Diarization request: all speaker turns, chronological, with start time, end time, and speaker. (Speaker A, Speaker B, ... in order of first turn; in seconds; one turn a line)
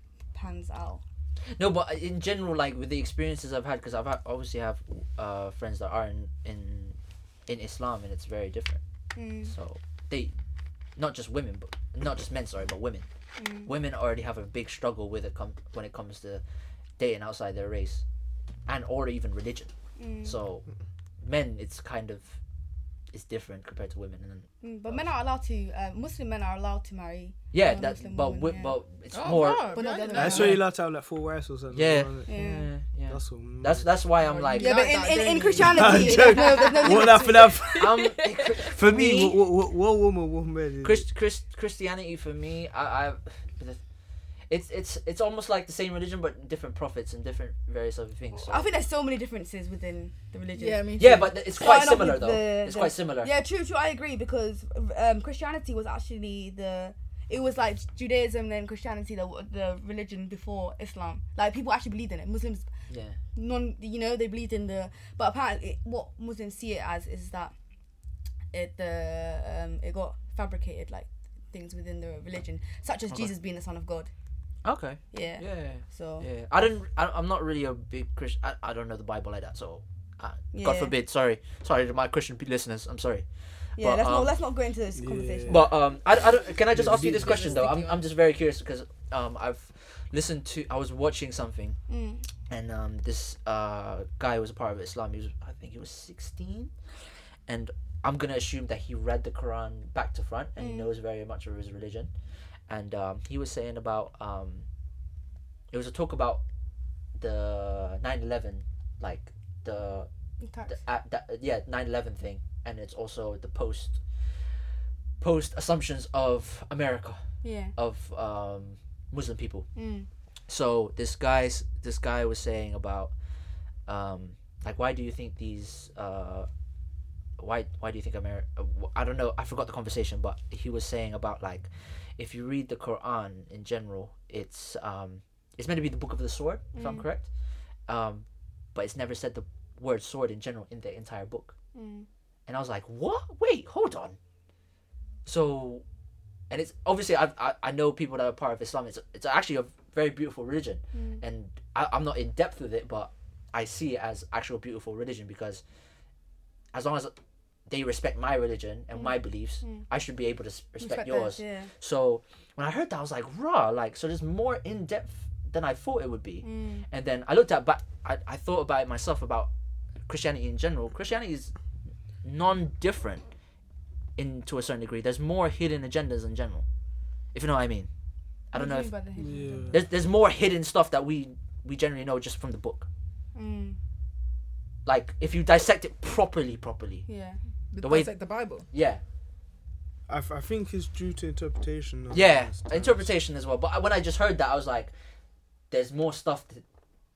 Speaker A: 0.3-1.0
Speaker B: 1.6-8.8
Speaker A: 9.1-9.5
Speaker B: 9.4-10.3
Speaker B: 11.0-13.1
Speaker A: 13.4-13.7
Speaker B: 13.7-16.4
Speaker B: 17.0-18.0
Speaker B: 18.7-19.7
Speaker A: 20.0-20.3
Speaker B: 20.2-20.6
Speaker B: 21.2-22.4
Speaker B: 23.1-25.1
Speaker A: 24.6-28.8
Speaker B: 27.5-29.8
Speaker C: 29.1-30.6
Speaker A: 29.7-30.6
Speaker D: 30.1-32.3
Speaker B: 31.7-34.7
Speaker A: 32.3-32.7
Speaker D: 33.1-34.0
Speaker C: 34.2-38.7
Speaker A: 34.5-37.5
Speaker D: 35.6-37.9
Speaker B: 37.8-39.4
Speaker D: 38.7-41.0
Speaker B: 40.8-43.8
Speaker B: 44.5-48.7
Speaker A: 48.5-62.7
Speaker C: 50.5-51.3
Speaker B: 51.0-53.3
Speaker B: 62.9-63.2
Speaker A: 63.3-67.5
Speaker A: 68.5-74.1
Speaker B: 74.6-83.2
Speaker A: 75.1-76.3
Speaker A: 80.5-80.9
Speaker B: 83.8-84.3
Speaker A: 83.8-85.7
Speaker D: 85.0-85.7
Speaker B: 85.5-91.8
Speaker D: 86.7-87.6
Speaker C: 86.8-88.0
Speaker A: 91.9-92.2
Speaker B: 92.5-96.7
Speaker B: 97.5-102.1
Speaker A: 100.6-100.9
Speaker B: 102.7-104.7
Speaker B: 105.7-106.4
Speaker B: 107.2-110.1
Speaker A: 110.4-110.8
Speaker B: 110.7-114.0
Speaker B: 115.2-117.2
Speaker A: 117.4-117.7
Speaker B: 117.8-119.7
Speaker A: 119.8-120.1
Speaker B: 120.5-123.1
Speaker B: 123.8-126.5
Speaker B: 127.4-137.3
Speaker A: 136.7-137.1
Speaker B: 137.9-141.5
Speaker A: 141.7-142.1
Speaker B: 142.5-144.2
Speaker B: 145.2-145.8
Speaker B: 146.5-155.6
Speaker A: 150.9-151.2
Speaker B: 156.7-157.1
Speaker B: 157.7-169.5
Speaker A: 158.9-159.8
Speaker A: 160.8-161.7
Speaker A: 166.4-166.8
Speaker B: 170.1-171.5
Speaker B: 172.2-173.2
Speaker B: 174.2-176.7
Speaker B: 177.3-177.9
Speaker B: 178.5-178.9
Speaker A: 178.5-179.7
Speaker D: 179.2-179.8
Speaker B: 179.7-182.9
Speaker A: 183.3-183.8
Speaker B: 184.8-187.1
Speaker A: 187.1-187.4
Speaker C: 187.7-188.6
Speaker B: 187.8-188.1
Speaker B: 188.7-189.0
Speaker D: 190.1-193.1
Speaker B: 192.1-194.9
Speaker B: 195.7-196.6